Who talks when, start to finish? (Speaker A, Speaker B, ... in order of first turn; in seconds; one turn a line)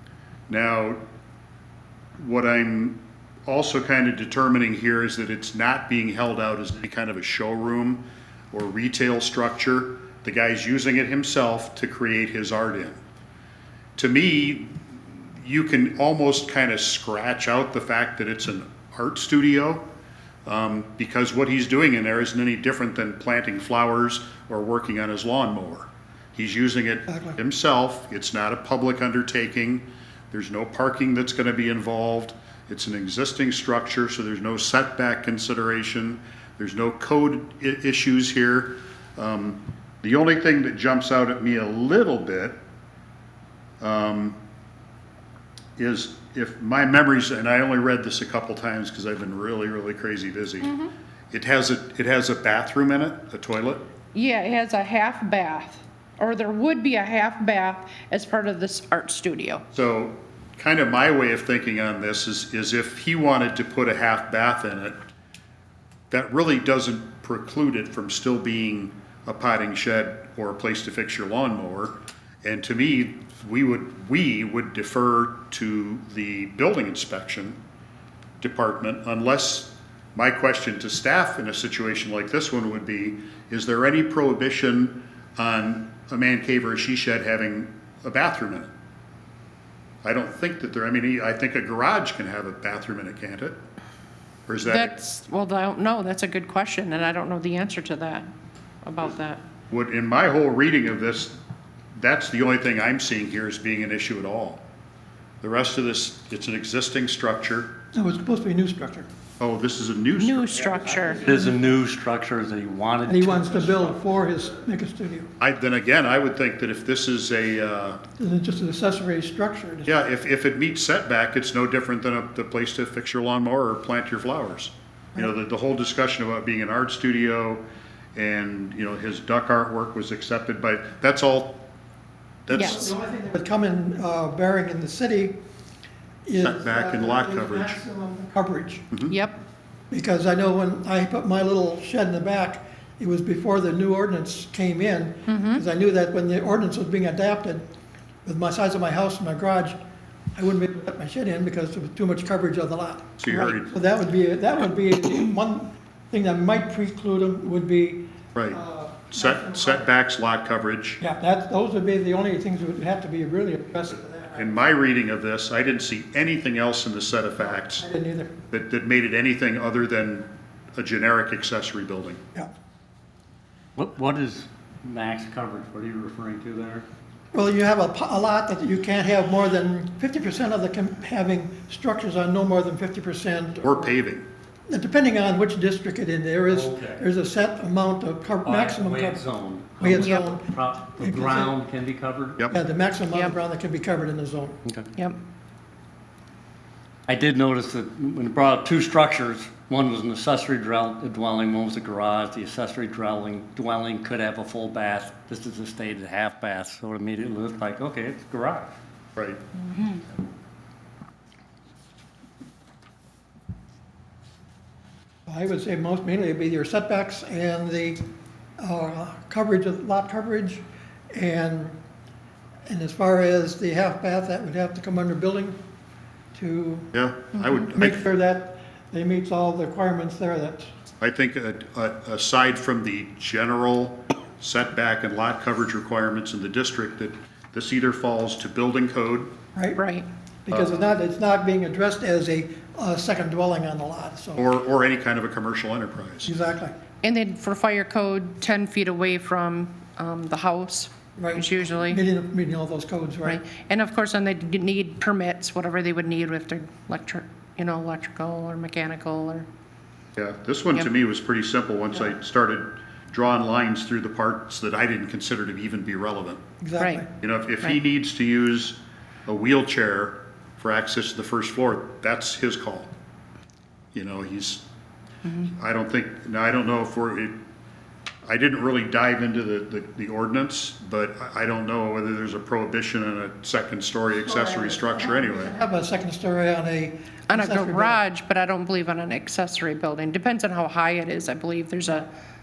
Speaker A: 0.5-1.0
Speaker A: 2.2-13.0
Speaker A: 14.0-14.8
Speaker A: 15.3-19.8
Speaker A: 20.4-42.6
Speaker A: 43.8-44.4
Speaker A: 45.8-50.7
Speaker B: 50.6-50.9
Speaker A: 51.3-53.8
Speaker B: 54.1-59.6
Speaker A: 59.7-65.0
Speaker A: 66.1-77.6
Speaker A: 78.4-88.7
Speaker A: 90.0-93.6
Speaker A: 94.5-94.9
Speaker B: 94.6-98.3
Speaker B: 98.8-99.4
Speaker A: 99.7-101.4
Speaker A: 101.9-104.6
Speaker A: 105.4-107.8
Speaker C: 107.9-109.1
Speaker A: 109.4-110.8
Speaker B: 110.2-111.3
Speaker D: 110.6-114.0
Speaker C: 111.3-111.5
Speaker C: 113.0-115.3
Speaker A: 115.4-118.0
Speaker C: 118.2-119.9
Speaker A: 119.9-127.6
Speaker A: 128.1-131.6
Speaker A: 132.4-132.9
Speaker C: 132.5-135.4
Speaker B: 132.5-132.9
Speaker C: 136.2-138.8
Speaker A: 136.4-137.8
Speaker B: 139.1-139.4
Speaker C: 139.9-147.6
Speaker B: 145.3-145.6
Speaker C: 148.2-149.8
Speaker C: 150.3-159.8
Speaker A: 153.2-153.7
Speaker A: 158.3-158.6
Speaker A: 159.1-161.0
Speaker C: 161.0-164.5
Speaker A: 164.3-167.9
Speaker C: 167.4-168.3
Speaker A: 168.5-172.2
Speaker D: 173.8-176.8
Speaker C: 177.3-183.9
Speaker A: 183.6-184.2
Speaker C: 184.7-189.2
Speaker D: 186.5-187.1
Speaker D: 188.4-192.4
Speaker C: 189.8-191.5
Speaker B: 189.9-190.3
Speaker C: 192.5-194.6
Speaker D: 194.6-194.9
Speaker D: 197.1-208.7
Speaker C: 215.2-218.0
Speaker C: 218.6-221.7
Speaker C: 222.7-225.6
Speaker C: 226.3-226.9
Speaker A: 226.9-228.0
Speaker C: 227.7-230.7
Speaker A: 231.0-239.3
Speaker C: 239.5-239.8
Speaker B: 239.8-240.1
Speaker C: 240.4-244.5
Speaker A: 240.5-240.9
Speaker A: 244.4-246.3
Speaker C: 246.2-246.7
Speaker B: 247.0-252.0
Speaker C: 251.2-253.4
Speaker B: 253.2-259.5
Speaker A: 260.1-266.4
Speaker C: 266.6-267.1
Speaker B: 266.8-267.0
Speaker A: 267.2-272.9
Speaker A: 273.9-274.6
Speaker A: 275.4-277.4
Speaker A: 278.2-285.5
Speaker C: 284.2-288.0
Speaker B: 287.3-292.1